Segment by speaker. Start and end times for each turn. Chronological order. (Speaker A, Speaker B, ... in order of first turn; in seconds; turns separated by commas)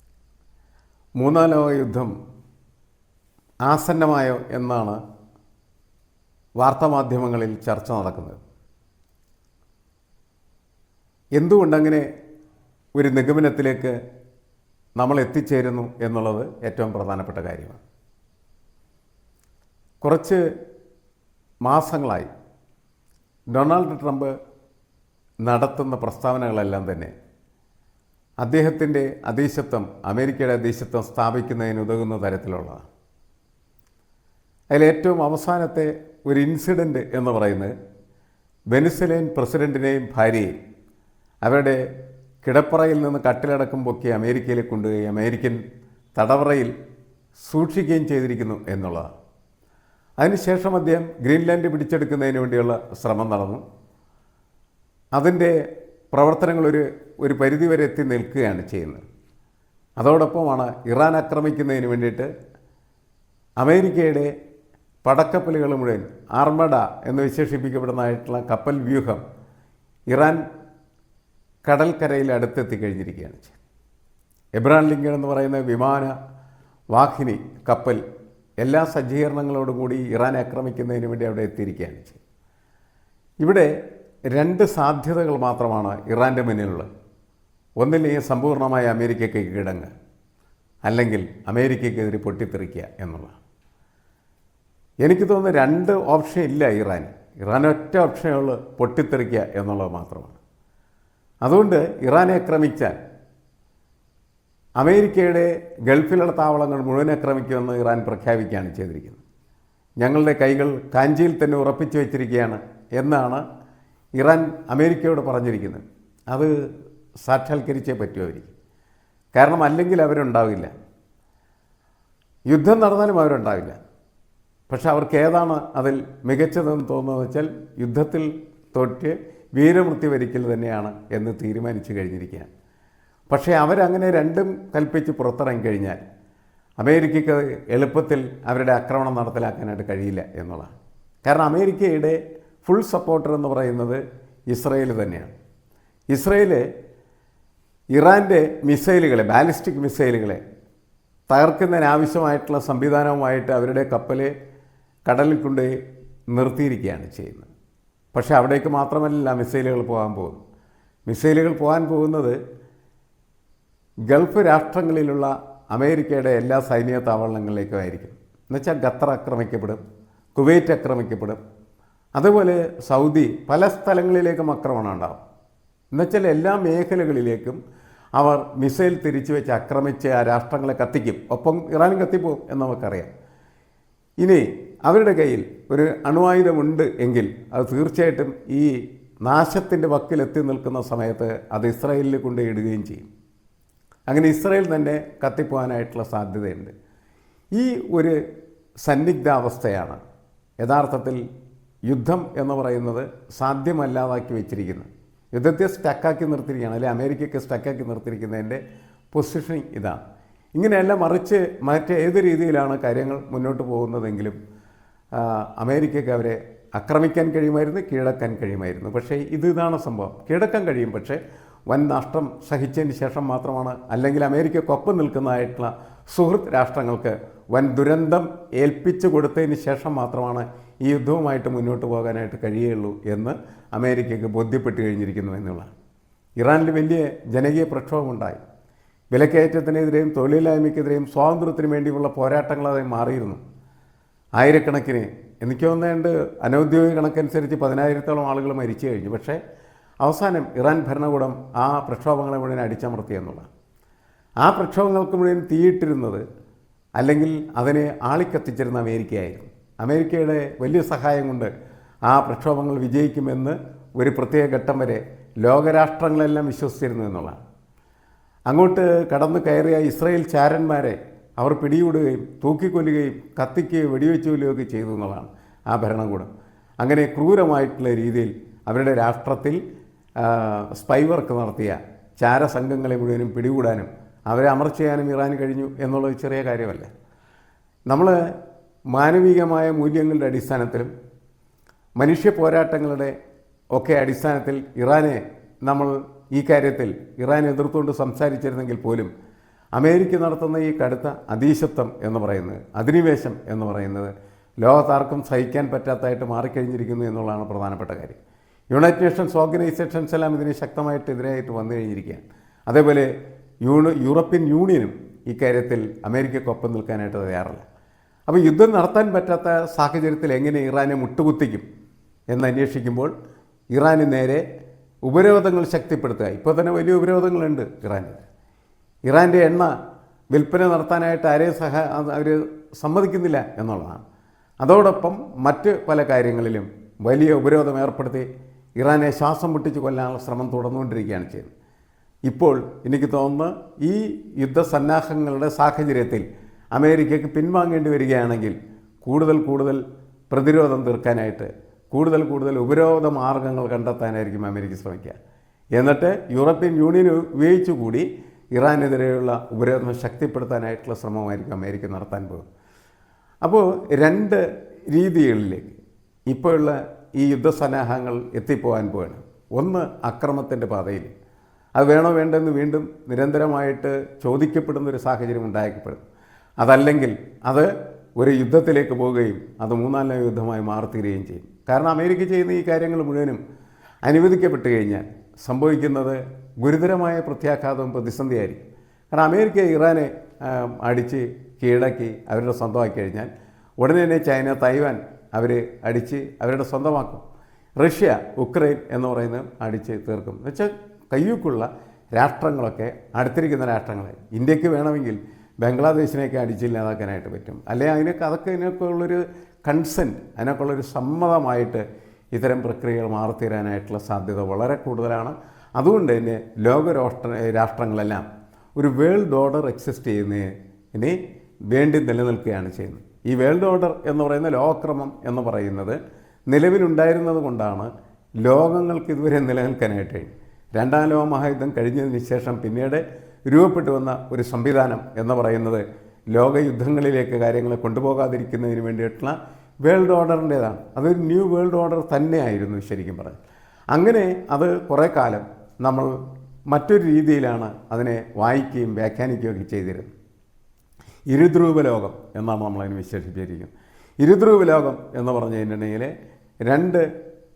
Speaker A: 1.2-2.1, Speaker A: 3.6-5.0, Speaker A: 6.6-8.4, Speaker A: 11.3-12.1, Speaker A: 13.0-13.9, Speaker A: 15.0-17.8, Speaker A: 20.0-20.4, Speaker A: 21.6-22.3, Speaker A: 23.5-24.3, Speaker A: 25.4-27.1, Speaker A: 28.4-32.9, Speaker A: 34.7-37.7, Speaker A: 38.7-40.5, Speaker A: 41.4-41.8, Speaker A: 42.4-45.6, Speaker A: 46.1-46.7, Speaker A: 47.4-49.1, Speaker A: 50.2-53.6, Speaker A: 55.1-55.6, Speaker A: 56.1-59.0, Speaker A: 60.0-62.3, Speaker A: 63.6-64.3, Speaker A: 65.0-69.2, Speaker A: 70.1-70.4, Speaker A: 71.6-73.6, Speaker A: 74.5-76.1, Speaker A: 76.9-78.0, Speaker A: 78.6-82.2, Speaker A: 83.4-83.7, Speaker A: 84.3-86.9, Speaker A: 87.8-89.9, Speaker A: 90.8-93.4, Speaker A: 95.0-100.4, Speaker A: 101.4-103.0, Speaker A: 104.8-109.2, Speaker A: 110.0-113.4, Speaker A: 114.2-116.5, Speaker A: 117.2-118.5, Speaker A: 119.3-120.7, Speaker A: 122.5-123.8, Speaker A: 124.7-132.5, Speaker A: 133.3-136.0, Speaker A: 136.8-145.3, Speaker A: 146.1-146.7, Speaker A: 147.9-150.4, Speaker A: 151.3-154.3, Speaker A: 155.1-155.7, Speaker A: 156.3-157.5, Speaker A: 158.1-160.4, Speaker A: 161.1-162.4, Speaker A: 164.1-169.8, Speaker A: 170.3-171.4, Speaker A: 172.2-175.2, Speaker A: 175.9-177.6, Speaker A: 178.2-183.1, Speaker A: 184.2-188.7, Speaker A: 189.2-193.1, Speaker A: 194.1-196.7, Speaker A: 197.5-198.2, Speaker A: 198.8-200.0, Speaker A: 200.6-201.2, Speaker A: 201.9-208.6, Speaker A: 209.1-210.0, Speaker A: 210.6-214.3, Speaker A: 215.1-235.7, Speaker A: 236.4-238.4, Speaker A: 239.1-243.4, Speaker A: 244.4-249.4, Speaker A: 250.0-253.5, Speaker A: 254.4-256.2, Speaker A: 257.0-261.5, Speaker A: 262.1-267.4, Speaker A: 268.5-276.3, Speaker A: 276.8-279.6, Speaker A: 280.2-286.9, Speaker A: 287.9-288.2, Speaker A: 288.9-290.9, Speaker A: 292.0-293.1, Speaker A: 293.7-299.1, Speaker A: 299.8-304.1, Speaker A: 304.6-308.2, Speaker A: 308.7-313.1, Speaker A: 313.6-317.6, Speaker A: 318.3-321.6, Speaker A: 322.3-323.1, Speaker A: 323.7-324.4, Speaker A: 325.1-328.2, Speaker A: 329.1-329.7, Speaker A: 330.3-334.0, Speaker A: 334.6-341.5, Speaker A: 342.3-355.2, Speaker A: 355.8-362.4, Speaker A: 363.4-371.1, Speaker A: 371.8-376.0, Speaker A: 376.6-383.4, Speaker A: 384.0-397.2, Speaker A: 397.8-418.2, Speaker A: 418.8-421.2, Speaker A: 421.7-426.0, Speaker A: 426.5-427.9, Speaker A: 428.4-443.4, Speaker A: 443.9-446.1, Speaker A: 446.7-450.1, Speaker A: 451.3-456.1, Speaker A: 456.6-457.1